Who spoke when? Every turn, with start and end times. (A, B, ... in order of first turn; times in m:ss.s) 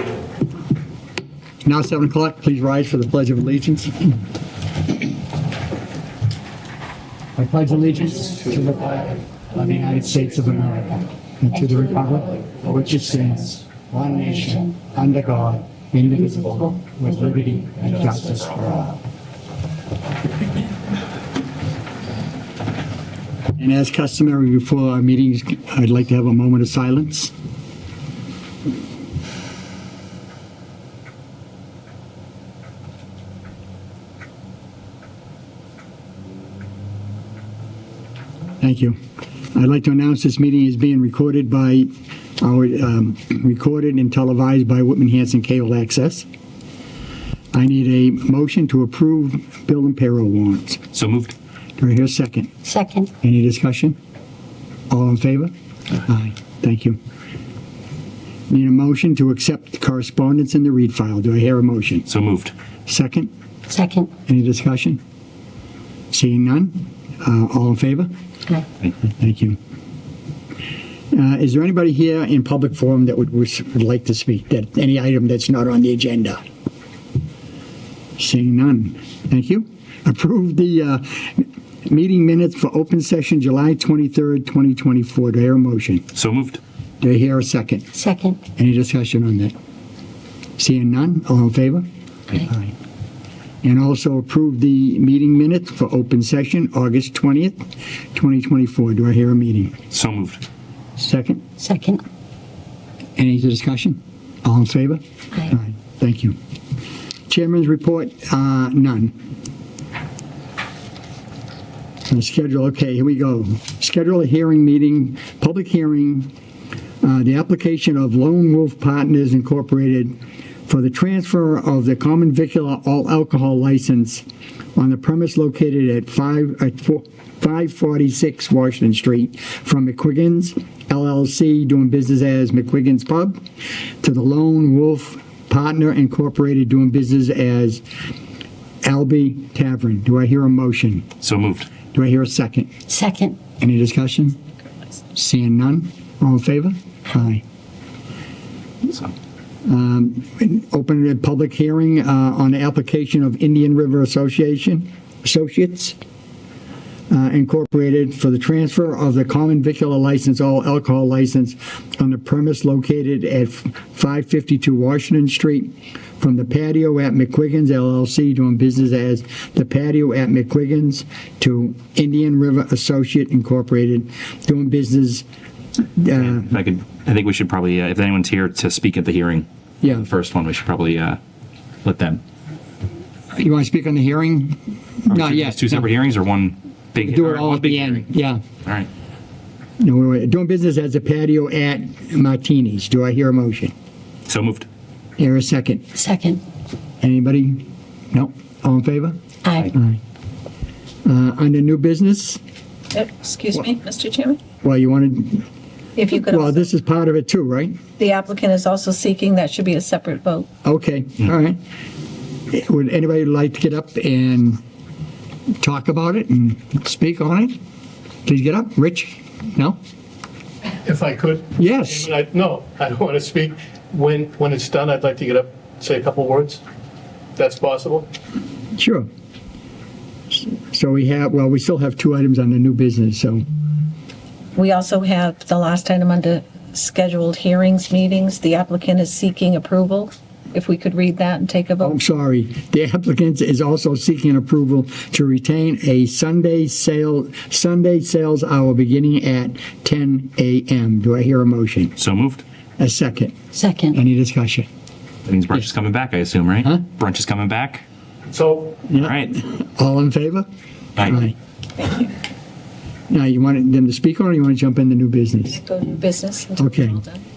0:01.6-0:04.2 A
0:07.4-0:19.0 A
0:23.6-0:27.3 A
0:38.6-0:39.0 A
0:39.5-0:46.2 A
0:47.5-0:50.8 A
0:50.9-0:51.4 B
0:51.8-0:52.6 A
0:52.6-0:53.1 C
0:53.2-0:54.0 A
0:54.9-0:55.5 A
0:56.0-0:57.0 A
0:58.5-1:02.1 A
1:02.1-1:02.5 B
1:02.9-1:03.3 A
1:03.7-1:04.1 C
1:04.3-1:05.0 A
1:06.1-1:08.1 A
1:09.0-1:09.6 A
1:11.1-1:16.4 A
1:18.2-1:26.1 A
1:26.1-1:26.6 B
1:27.0-1:27.9 A
1:28.0-1:28.4 C
1:28.5-1:29.5 A
1:30.6-1:32.7 A
1:33.6-1:37.6 A
1:38.1-1:39.8 A
1:39.9-1:40.4 B
1:41.0-1:41.4 A
1:41.6-1:42.0 C
1:43.2-1:46.4 A
1:47.3-1:49.1 A
1:52.1-1:56.3 A
1:57.0-2:00.1 A
2:00.7-2:04.2 A
2:04.8-2:13.4 A
2:14.0-2:17.8 A
2:18.8-2:21.1 A
2:21.2-2:21.7 B
2:21.9-2:22.7 A
2:22.9-2:23.4 C
2:23.6-2:24.4 A
2:25.1-2:27.4 A
2:28.9-2:29.1 B
2:29.7-2:36.0 A
2:37.1-2:55.3 A
2:55.8-2:56.5 A
2:56.1-3:01.2 B
2:59.8-3:00.1 A
3:01.8-3:02.2 B
3:03.3-3:05.8 A
3:05.1-3:08.1 B
3:07.0-3:08.4 A
3:08.6-3:08.9 B
3:09.8-3:13.7 A
3:14.3-3:14.7 B
3:15.2-3:15.9 A
3:16.0-3:16.4 C
3:17.0-3:19.2 A
3:19.4-3:19.7 C
3:19.7-3:20.0 A
3:21.0-3:22.4 A
3:22.9-3:24.4 D
3:24.6-3:25.5 A
3:26.0-3:26.7 D
3:26.1-3:27.8 A
3:28.0-3:30.5 D
3:30.6-3:31.6 A
3:32.5-3:34.6 A
3:35.6-3:37.6 A
3:38.3-3:39.8 A
3:40.8-3:46.6 E
3:41.6-3:42.1 A
3:47.4-3:48.1 E
3:48.8-3:49.1 A
3:50.3-3:53.4 A
3:54.6-4:02.0 D
4:01.8-4:12.0 A
4:12.0-4:12.4 B
4:12.8-4:13.4 A
4:13.5-4:14.0 C
4:13.9-4:14.7 A
4:15.3-4:17.8 B
4:16.6-4:16.9 A
4:18.3-4:18.8 E
4:18.9-4:20.5 A
4:18.9-4:19.4 B
4:21.0-4:21.2 B
4:21.0-4:21.4 A
4:21.8-4:22.1 D
4:23.1-4:25.6 A
4:25.6-4:27.2 D
4:26.6-4:27.0 A